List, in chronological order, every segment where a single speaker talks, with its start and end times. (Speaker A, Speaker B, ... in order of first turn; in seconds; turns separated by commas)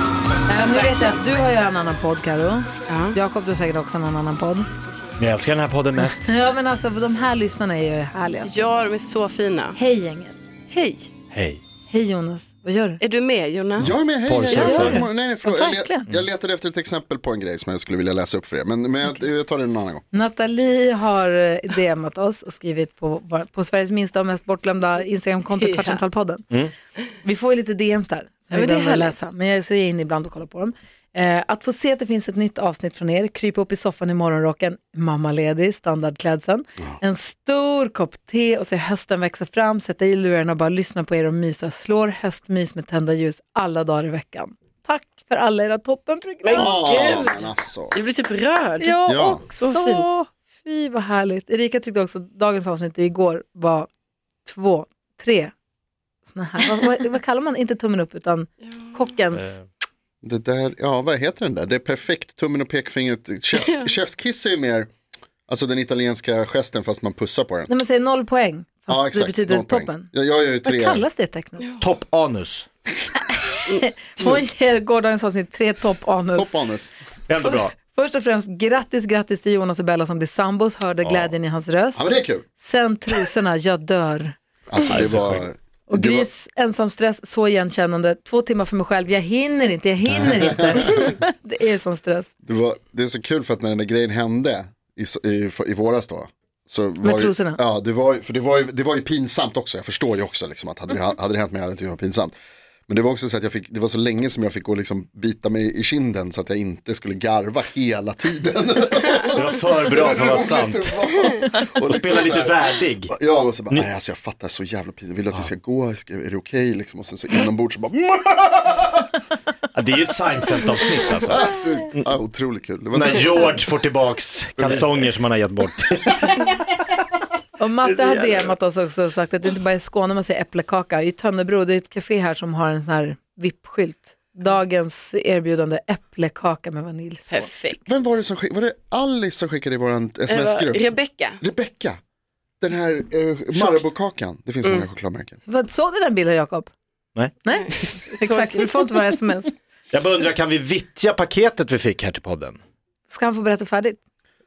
Speaker A: 0.5-4.7, Speaker B: 0.6-1.2, Speaker B: 2.9-3.2, Speaker C: 5.2-6.3, Speaker A: 6.0-8.7, Speaker B: 8.4-9.8, Speaker A: 9.8-10.4, Speaker B: 10.7-11.1, Speaker C: 11.3-11.6, Speaker A: 11.9-13.0, Speaker B: 13.0-13.9, Speaker D: 13.8-20.0, Speaker C: 13.8-15.1, Speaker A: 14.4-16.1, Speaker B: 14.5-14.9, Speaker A: 20.1-26.5, Speaker B: 25.6-26.0, Speaker A: 27.2-47.2, Speaker B: 28.5-29.2, Speaker B: 46.4-50.1, Speaker D: 46.5-48.0, Speaker A: 48.8-53.9, Speaker D: 49.1-49.4, Speaker A: 54.5-55.5, Speaker A: 56.3-59.6, Speaker C: 59.3-59.6, Speaker D: 60.2-64.9, Speaker D: 65.5-67.7, Speaker A: 67.7-70.1, Speaker D: 68.9-71.1, Speaker A: 70.6-71.7, Speaker C: 71.8-72.7, Speaker A: 73.7-76.6, Speaker B: 73.7-74.4, Speaker D: 76.3-77.0, Speaker C: 77.3-77.7, Speaker A: 77.4-84.4, Speaker C: 81.0-81.3, Speaker D: 81.9-82.4, Speaker D: 84.7-86.3, Speaker C: 84.9-85.4, Speaker A: 85.9-92.3, Speaker D: 90.1-91.1, Speaker D: 92.4-102.3, Speaker A: 97.0-97.6, Speaker D: 102.9-119.1, Speaker C: 109.3-113.2, Speaker C: 119.7-122.1, Speaker D: 121.2-123.6, Speaker C: 122.9-126.5, Speaker D: 124.6-124.9, Speaker A: 127.6-137.5, Speaker C: 127.8-128.5, Speaker B: 137.3-138.0, Speaker D: 137.8-142.0, Speaker B: 140.3-141.4, Speaker D: 142.6-145.4, Speaker A: 145.5-146.7, Speaker C: 147.2-147.8, Speaker A: 147.4-149.5, Speaker B: 147.5-148.9, Speaker C: 149.9-152.6, Speaker A: 153.1-154.0